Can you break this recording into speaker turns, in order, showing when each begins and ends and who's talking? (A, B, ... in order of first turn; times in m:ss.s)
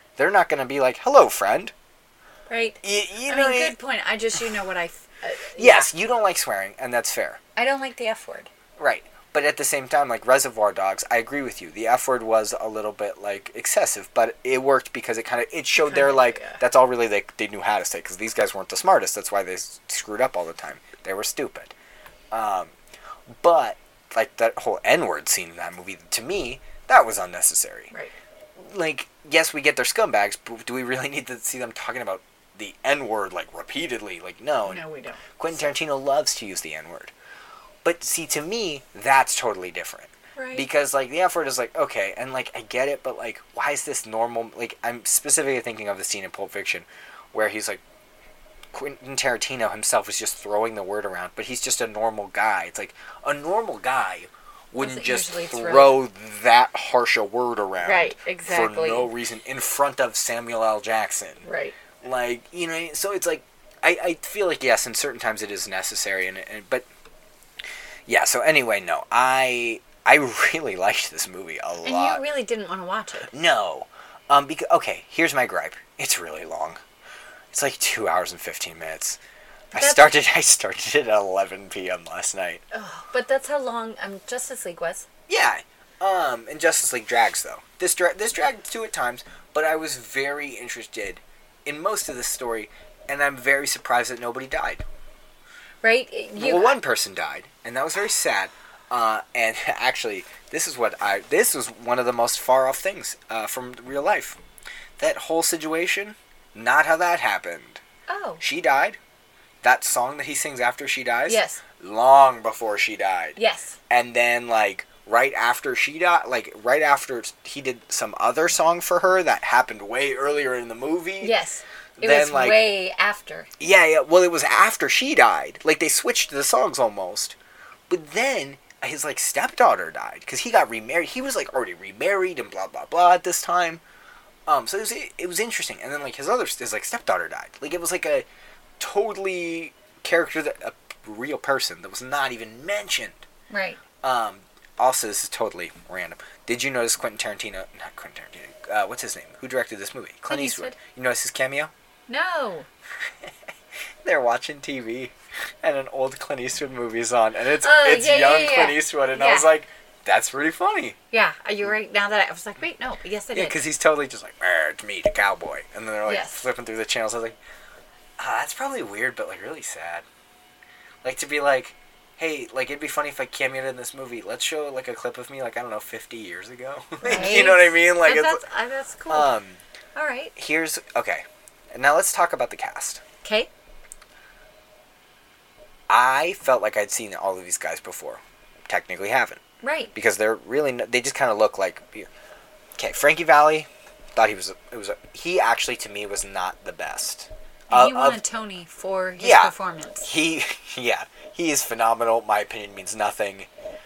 0:00.2-0:01.7 A
0:02.5-0:05.9 B
0:02.8-0:03.8 A
0:05.6-0:07.4 A
0:07.6-0:08.5 B
0:08.8-0:21.7 A
0:15.8-0:16.6 B
0:22.3-0:22.7 A
0:23.4-0:27.9 A
0:28.6-0:34.8 A
0:34.6-0:35.2 B
0:35.4-0:37.1 A
0:37.8-0:47.8 A
0:40.4-0:40.7 B
0:48.7-1:01.4 A
0:54.8-0:56.0 B
0:57.8-0:59.1 B
1:01.4-1:01.8 B
1:02.0-1:06.9 A
1:08.1-1:12.2 A
1:11.8-1:13.3 B
1:13.3-1:16.8 A
1:17.5-1:19.2 A
1:19.7-1:22.6 A
1:19.7-1:20.1 B
1:22.7-1:25.1 B
1:25.3-1:34.8 A
1:35.8-1:36.8 B
1:36.4-1:44.4 A
1:45.0-1:47.8 A
1:48.1-1:48.4 B
1:48.4-1:49.0 A
1:49.6-1:53.4 A
1:51.3-1:51.6 B
1:53.4-1:53.8 B
1:53.9-2:01.3 A
2:01.2-2:03.5 B
2:02.0-2:02.7 A
2:03.6-2:07.4 A
2:07.9-2:13.8 A
2:14.5-2:18.2 A
2:18.8-2:23.2 A
2:23.5-2:23.8 B
2:24.0-2:31.7 A
2:30.3-2:30.8 B
2:32.1-2:32.7 B
2:34.0-2:41.0 A
2:37.6-2:39.5 B
2:41.1-2:43.6 B
2:43.3-2:47.4 A
2:46.0-2:46.5 B
2:48.2-2:50.0 A
2:51.0-2:58.4 A
2:57.0-2:59.3 B
2:59.1-2:59.6 A
2:59.9-3:00.3 B
3:00.4-3:03.0 A
3:03.2-3:03.5 B
3:05.9-3:09.4 A
3:09.6-3:09.9 B
3:09.9-3:12.1 A
3:12.8-3:18.2 A
3:17.7-3:20.1 B
3:19.2-3:23.5 A